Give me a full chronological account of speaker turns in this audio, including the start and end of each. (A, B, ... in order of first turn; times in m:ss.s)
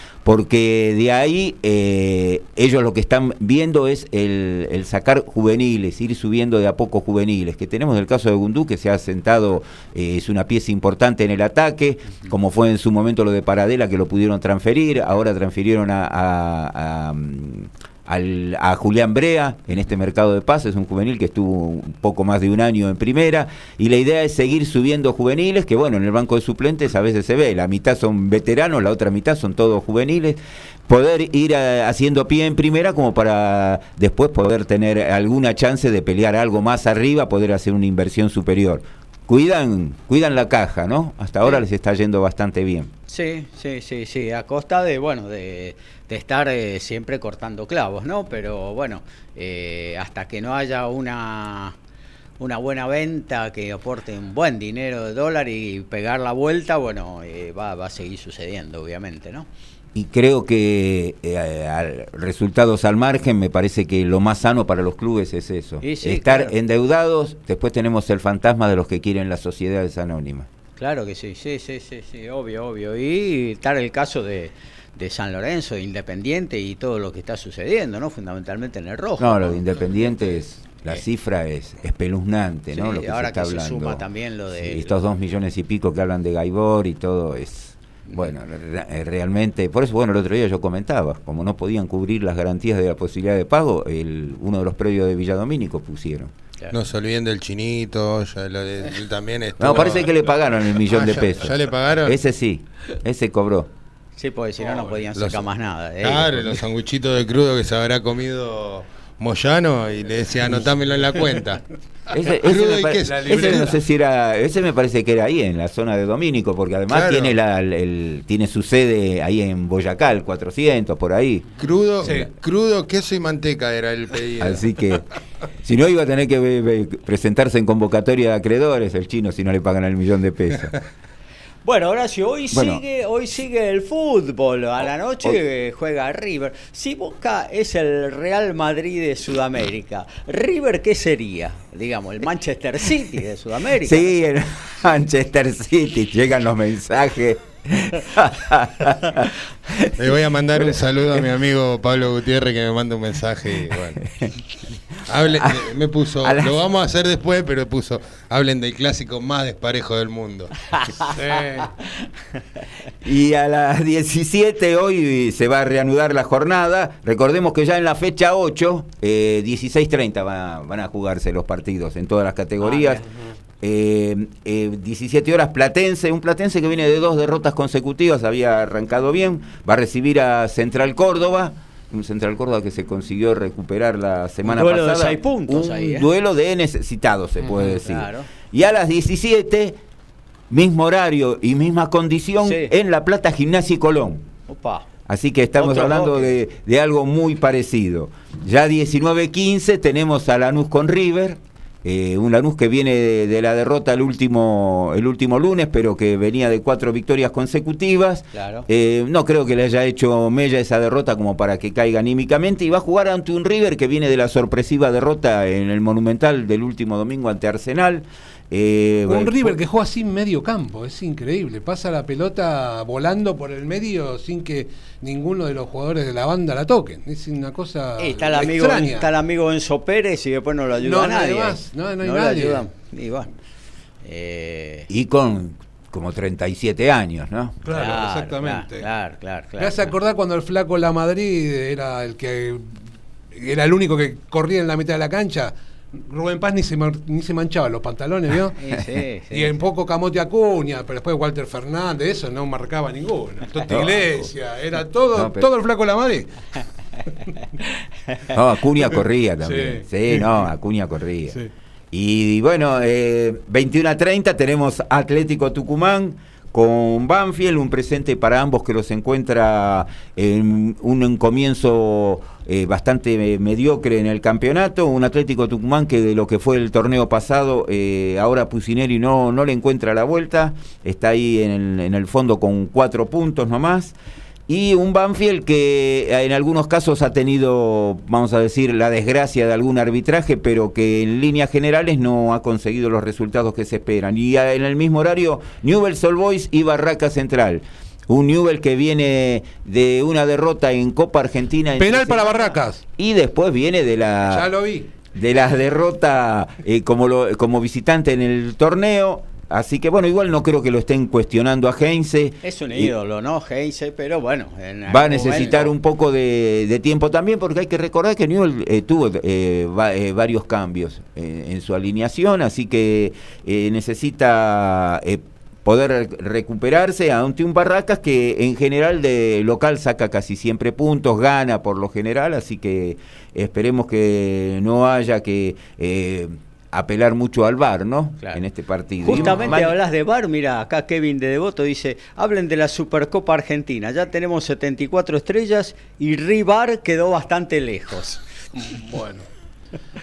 0:00.2-0:42.9 A
0:43.1-0:51.8 B
0:52.4-0:59.5 B
1:00.0-1:10.5 A
1:05.8-1:06.5 B
1:10.8-1:20.4 B
1:19.2-1:24.0 A
1:22.7-1:24.9 B
1:24.6-1:36.3 A
1:36.7-1:40.2 C
1:39.6-1:43.7 A
1:40.9-1:42.2 C
1:44.2-1:46.6 B
1:44.6-1:45.0 D
1:45.2-1:45.5 C
1:46.0-1:51.6 C
1:52.1-2:01.5 A
1:52.3-1:53.8 C
1:52.9-1:53.7 D
1:56.9-1:57.4 C
2:01.6-2:04.8 C
2:04.4-2:05.1 A
2:05.6-2:10.8 A
2:11.6-2:24.1 B
2:12.5-2:12.8 A
2:23.8-2:29.9 A
2:30.0-2:34.0 C
2:34.0-2:34.3 A
2:35.1-2:40.5 C
2:36.2-2:36.6 A
2:40.7-2:41.7 B
2:41.2-2:41.7 D
2:43.0-2:53.0 A
2:52.6-2:53.0 B
2:53.6-3:09.8 A
3:04.4-3:06.1 B
3:07.4-3:07.8 D
3:07.6-3:08.3 B
3:10.5-3:14.2 A
3:12.4-3:12.7 B
3:14.5-3:14.9 B
3:15.1-3:39.6 A
3:15.6-3:16.3 B
3:28.3-3:28.7 B
3:39.1-3:49.1 D
3:48.0-3:53.3 B
3:50.8-3:52.6 D
3:54.0-3:54.9 B
3:54.9-3:57.6 A
3:57.6-3:58.8 D
3:57.7-3:59.9 B
3:59.6-4:02.7 D
4:03.4-4:08.6 D
4:08.6-4:09.6 B
4:09.3-4:16.3 D
4:13.7-4:14.3 A
4:15.1-4:15.5 A
4:18.3-4:21.4 A
4:19.4-4:20.5 D
4:21.9-4:43.9 A
4:44.5-5:04.5 A
5:01.8-5:02.8 D
5:04.3-5:04.9 D
5:05.1-5:12.9 A
5:12.4-5:15.7 B
5:14.9-5:39.8 A
5:39.0-5:48.2 B
5:39.1-5:39.5 D
5:48.5-5:49.3 D